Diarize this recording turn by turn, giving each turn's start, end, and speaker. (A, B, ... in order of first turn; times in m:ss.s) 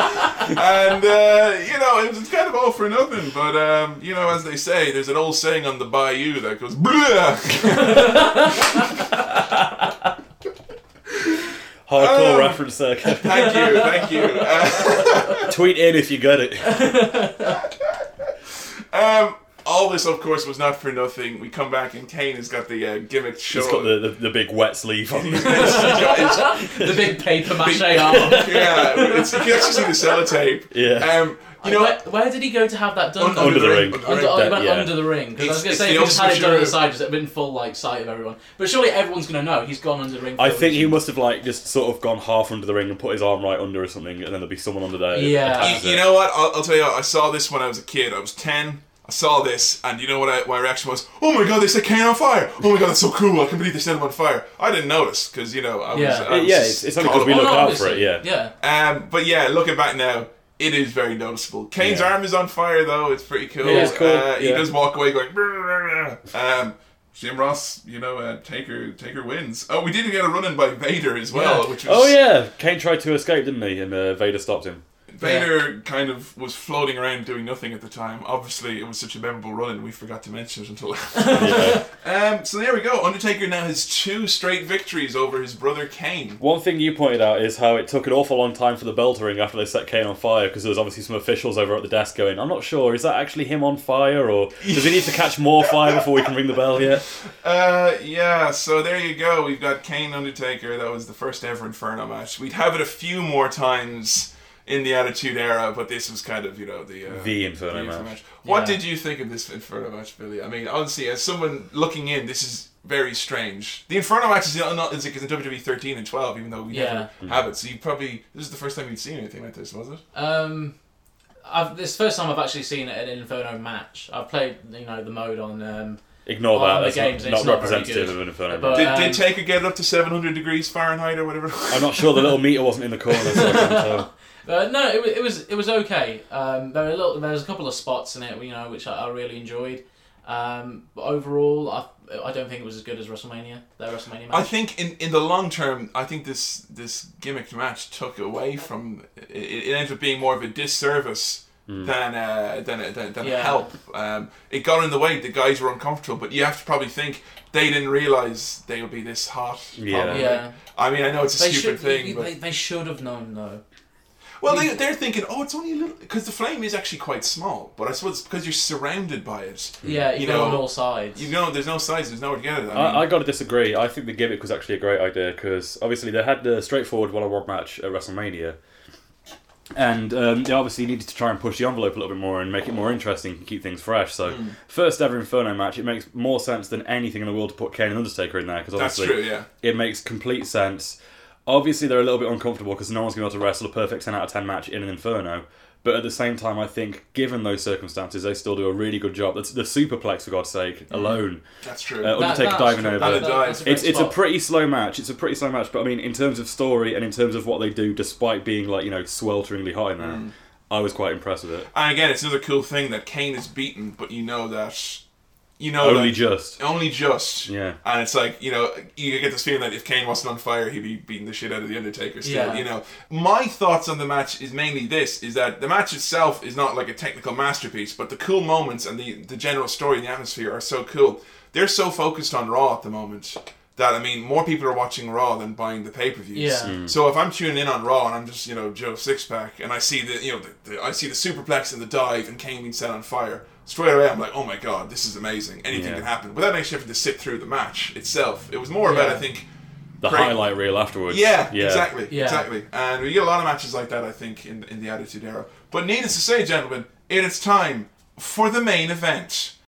0:00.3-0:08.8 A
0:07.9-0:08.7 B
0:11.3-0:12.6 A
0:11.9-0:13.8 C
0:13.1-0:15.5 A
0:15.4-0:17.1 C
0:16.6-0:17.6 B
0:18.9-0:24.0 A
0:23.5-0:26.5 C
0:25.1-0:32.0 A
0:25.4-0:29.8 B
0:28.1-0:29.0 C
0:30.7-0:31.1 C
0:31.6-0:41.0 B
0:33.2-0:34.5 A
0:33.4-0:34.9 C
0:35.4-0:36.8 A
0:40.4-0:46.1 C
0:45.1-0:45.8 B
0:45.6-0:57.9 A
0:55.9-0:56.3 B
0:56.3-0:58.2 C
0:57.0-0:58.5 B
0:58.6-1:12.2 A
1:01.8-1:02.1 C
1:03.6-1:04.7 C
1:03.6-1:04.0 B
1:11.3-1:11.7 B
1:11.8-1:14.8 C
1:15.1-1:26.4 A
1:15.2-1:15.5 B
1:21.2-1:21.8 B
1:21.4-1:21.8 C
1:26.4-1:37.1 C
1:34.6-1:35.2 A
1:37.4-2:00.0 A
1:47.1-1:48.1 C
1:48.4-1:48.8 B
1:56.7-1:57.1 B
2:00.1-2:00.7 B
2:01.4-2:06.0 B
2:06.2-2:09.0 C
2:06.5-2:09.2 B
2:08.7-2:12.3 A
2:11.7-2:14.1 C
2:13.3-2:24.5 B
2:24.3-2:42.3 A
2:31.7-2:31.9 C
2:33.2-2:33.7 B
2:39.8-2:40.3 C
2:40.1-2:40.6 B
2:41.4-2:43.6 B
2:44.4-2:53.0 A
2:44.4-2:44.8 B
2:49.8-2:51.3 B
2:52.7-2:58.6 C
2:59.8-3:21.4 C
3:04.3-3:04.5 A
3:08.8-3:09.5 A
3:21.6-3:23.6 A
3:22.0-3:31.7 C
3:22.1-3:24.2 B
3:30.0-3:30.3 A
3:31.7-3:35.0 A
3:35.6-4:09.5 A
3:35.8-3:36.6 C
3:37.5-3:37.8 C
3:42.2-3:42.6 B
3:56.3-3:56.7 B
3:56.6-3:56.9 C
4:05.7-4:06.0 C
4:08.8-4:09.2 B
4:10.0-4:11.9 C
4:10.0-4:10.4 A
4:11.1-4:19.5 A
4:12.1-4:12.4 B